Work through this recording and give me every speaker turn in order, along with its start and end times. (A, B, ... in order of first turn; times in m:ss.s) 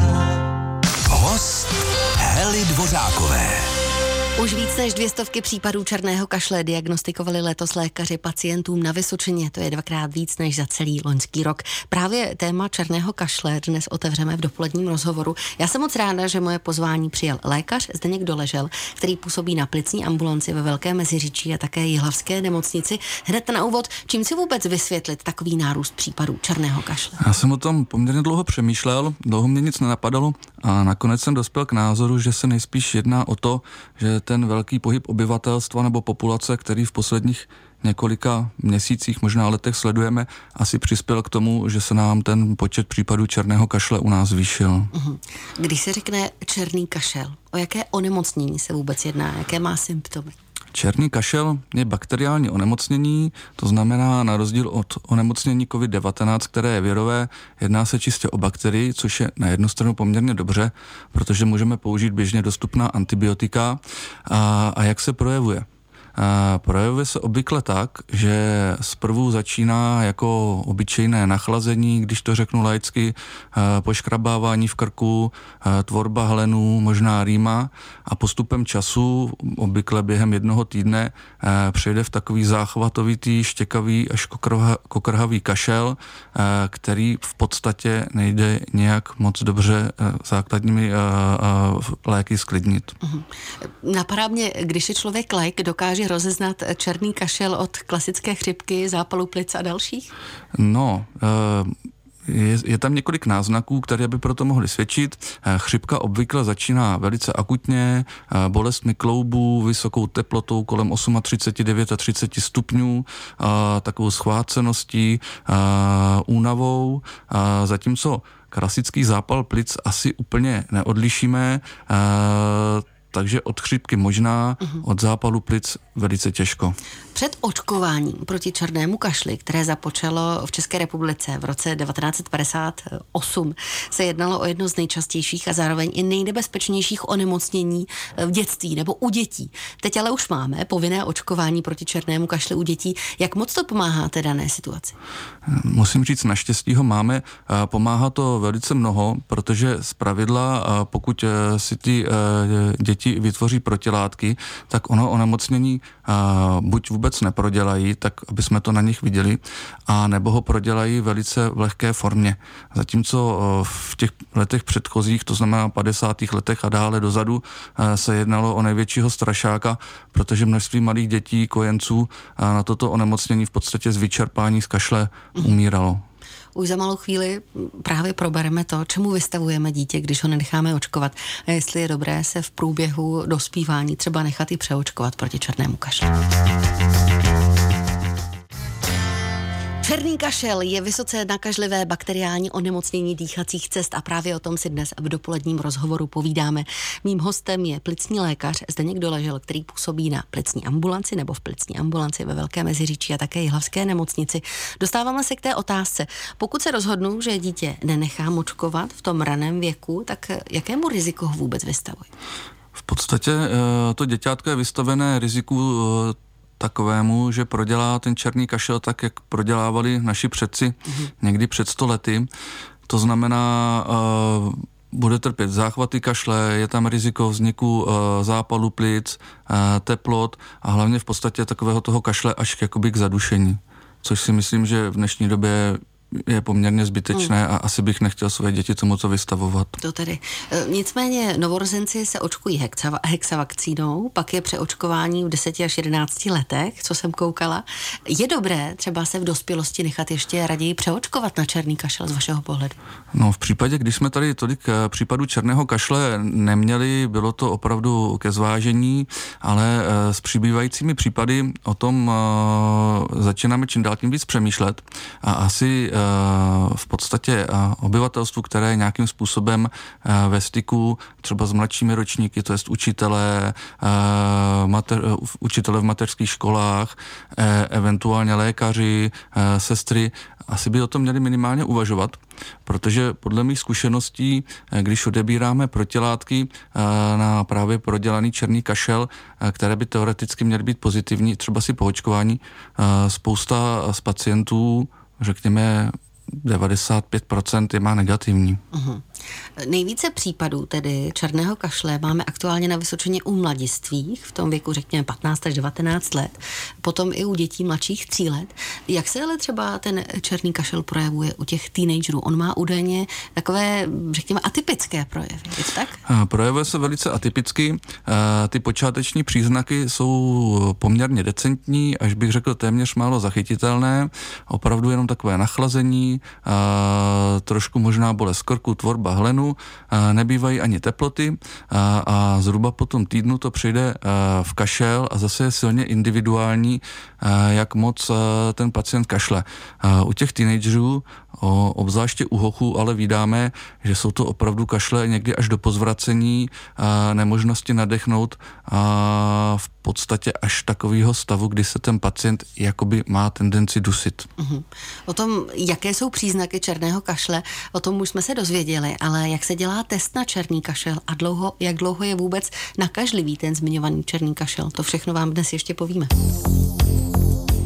0:01.1-0:03.7 A
0:04.4-0:27.2 B
0:27.2-0:44.9 C
0:44.9-0:50.4 B
0:50.7-1:32.9 C
1:33.0-1:40.1 B
1:40.5-1:41.7 C
1:42.2-2:06.8 C
2:07.1-2:25.0 B
2:25.5-2:56.0 C
2:56.5-3:06.1 B
3:09.8-3:32.1 B
3:32.8-3:42.3 C
3:42.9-3:59.8 C
3:59.8-4:12.8 B
4:13.1-4:58.6 C
4:58.7-4:59.0 B
4:59.6-5:16.0 B
5:16.0-5:54.3 C
5:54.4-6:06.1 B